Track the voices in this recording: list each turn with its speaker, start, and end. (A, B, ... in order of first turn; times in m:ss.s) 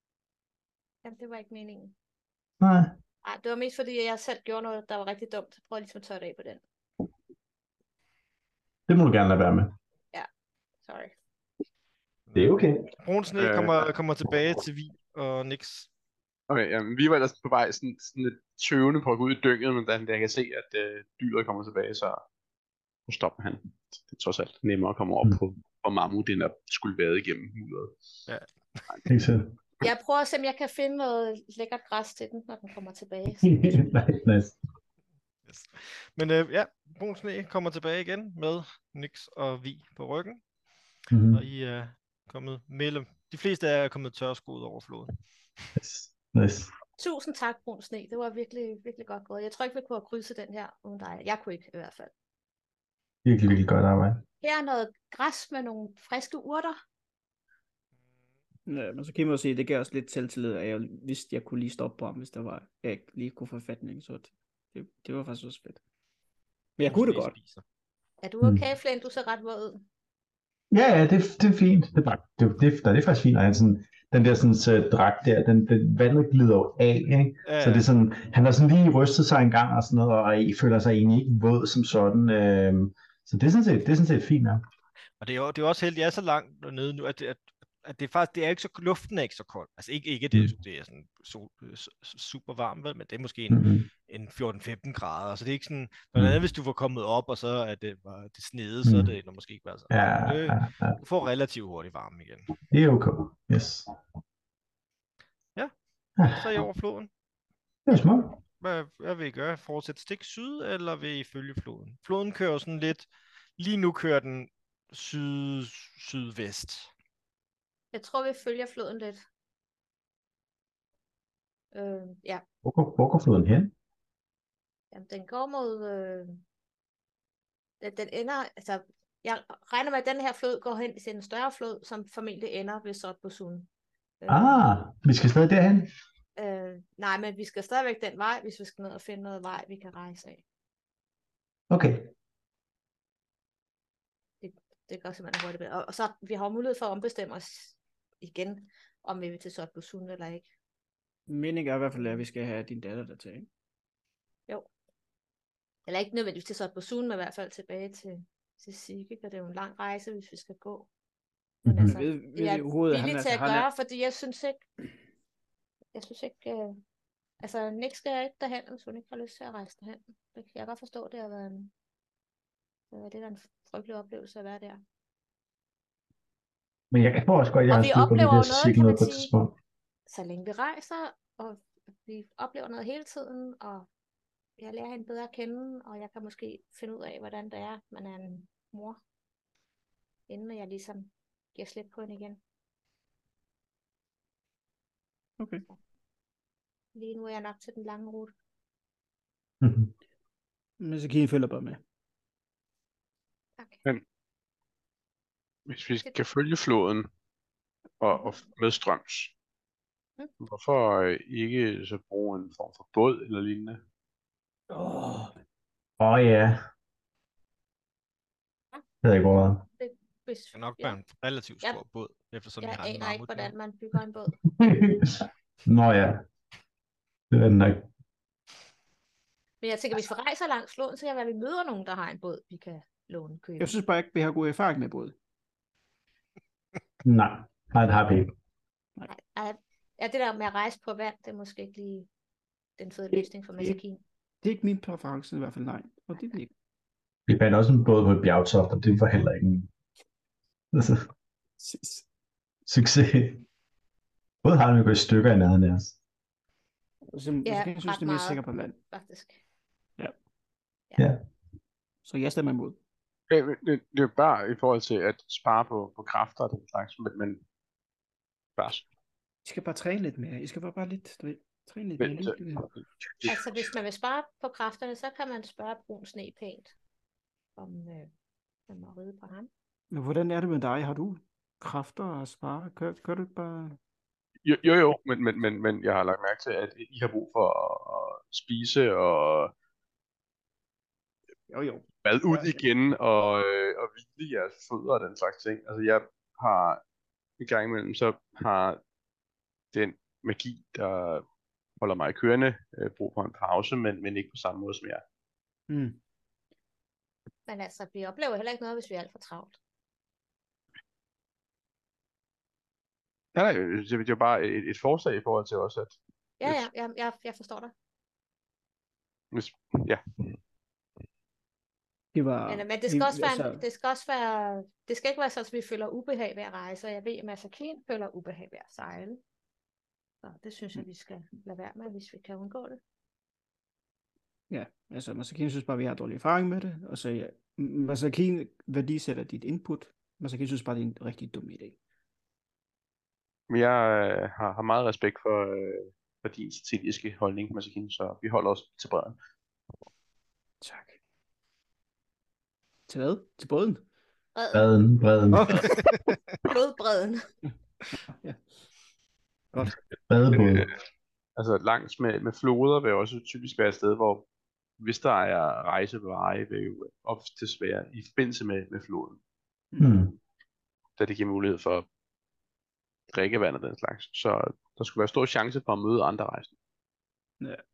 0:01.0-0:01.9 A
0:02.6-0:03.0 B
0:03.2-0:06.6 A
0:08.9-0:09.7 B
0:10.8-0:11.1 A
0:12.3-0:15.9 C
0:12.3-0:12.9 B
0:13.4-0:13.8 D
0:16.5-0:22.2 D
0:23.1-0:28.0 D
0:28.3-0:28.9 C
0:29.1-0:29.5 B
0:29.8-0:33.9 A
0:33.4-0:34.6 B
0:35.5-0:40.4 C
0:41.1-0:41.4 B
0:41.3-0:45.1 C
0:45.8-0:46.7 B
0:47.0-0:52.1 A
0:53.2-0:54.2 B
0:54.4-0:56.8 A
0:58.7-1:05.8 E
1:06.8-1:07.3 E
1:06.8-1:07.6 C
1:08.2-1:09.8 A
1:10.7-1:24.6 B
1:17.4-1:17.8 C
1:25.2-1:42.5 C
1:33.5-1:33.8 B
1:38.8-1:39.1 B
1:39.9-1:41.0 B
1:42.7-1:43.9 B
1:46.2-1:46.5 B
1:46.3-1:47.1 C
1:47.8-1:48.4 B
1:48.6-1:56.9 C
1:57.9-1:59.2 A
2:01.7-2:02.4 A
2:02.6-2:03.7 B
2:04.9-2:06.4 A
2:07.8-2:13.7 A
2:14.2-2:14.6 A
2:14.3-2:15.9 B
2:16.4-2:20.4 A
2:21.7-2:22.1 B
2:24.4-2:30.5 A
2:31.3-2:33.5 E
2:35.9-2:40.9 A
2:41.6-2:42.0 B
2:41.6-2:44.6 A
2:41.9-2:43.7 E
2:45.9-2:46.8 A
2:47.4-2:51.7 A
2:52.9-2:54.8 A
2:56.9-2:59.5 B
2:57.7-2:59.3 A
3:00.1-3:03.9 A
3:04.6-3:09.0 A
3:10.3-3:12.4 A
3:15.4-3:15.6 E
3:16.9-3:18.3 A
3:19.6-3:19.9 B
3:20.8-3:21.8 E
3:25.7-3:27.1 D
3:28.0-3:29.3 D
3:30.4-3:33.8 D
3:36.0-3:36.6 B
3:39.0-3:39.6 B
3:39.8-3:41.0 A
3:40.5-3:43.5 C
3:42.6-3:44.3 A
3:44.4-3:46.2 B
3:47.3-3:47.9 B
3:49.6-3:53.7 A
3:53.6-3:55.1 E
3:57.0-3:58.3 B
3:59.1-4:02.1 A
4:02.8-4:04.0 A
4:03.1-4:03.8 E
4:04.4-4:06.5 E
4:07.3-4:09.7 B
4:10.7-4:11.0 B
4:11.6-4:12.0 E
4:12.6-4:13.4 B
4:14.4-4:15.9 B
4:17.1-4:18.8 E
4:17.4-4:19.4 A
4:22.0-4:22.8 E
4:23.3-4:27.4 D
4:28.6-4:28.8 D
4:29.4-4:32.7 E
4:32.0-4:33.3 D
4:33.2-4:36.7 A
4:37.6-4:38.1 A
4:38.7-4:39.5 A
4:39.9-4:43.8 E
4:44.4-4:49.5 D
4:51.5-4:52.6 E
4:52.0-4:56.8 D
4:57.4-4:58.8 D
4:59.7-5:01.2 D
5:01.8-5:05.0 D
5:05.7-5:06.0 E
5:07.5-5:09.6 A
5:13.3-5:16.6 D
5:16.4-5:17.7 A
5:19.3-5:20.0 D
5:22.1-5:23.6 E
5:22.5-5:29.2 A
5:30.2-5:32.8 A
5:34.5-5:41.8 E
5:43.5-5:49.2 D
5:50.6-5:51.0 E
5:52.9-5:53.8 E
5:54.3-5:54.7 A
5:54.5-5:55.7 B
5:55.3-5:55.8 E
5:56.4-5:57.2 A
5:58.1-5:58.4 E
6:00.1-6:00.7 B
6:00.3-6:00.8 D
6:01.4-6:04.3 D
6:04.8-6:09.2 D
6:09.7-6:10.0 E
6:09.8-6:10.2 B
6:11.0-6:11.8 D
6:13.1-6:16.5 D